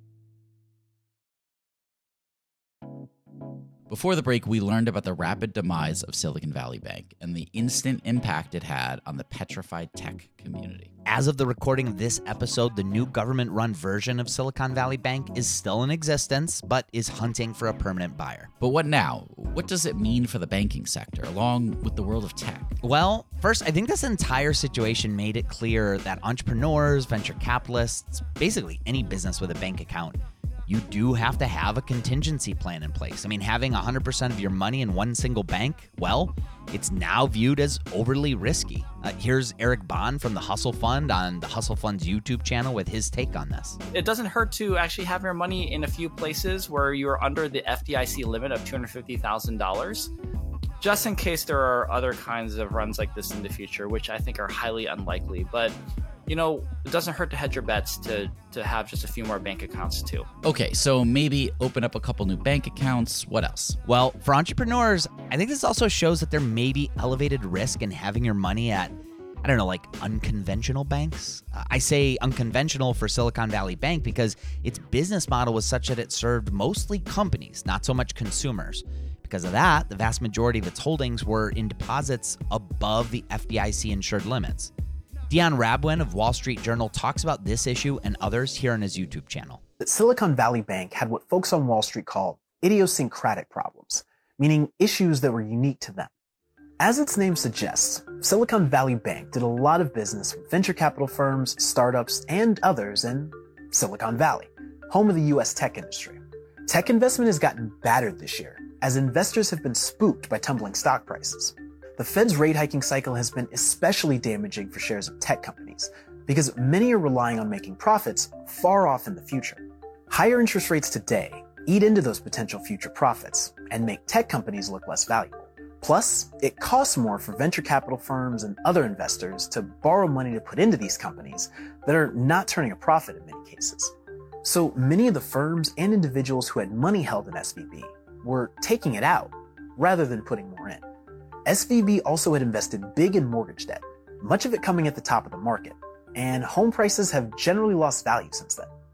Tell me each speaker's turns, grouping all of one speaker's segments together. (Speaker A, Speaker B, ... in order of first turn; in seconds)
Speaker A: 3.9-10.9, 18.6-22.8, 60.4-63.8
Speaker B: 11.1-18.5, 22.8-43.8, 63.9-84.7, 85.3-89.6
Speaker C: 43.9-50.1, 50.8-55.8, 56.3-60.3
Speaker D: 89.8-96.1, 96.8-140.8, 141.5-148.7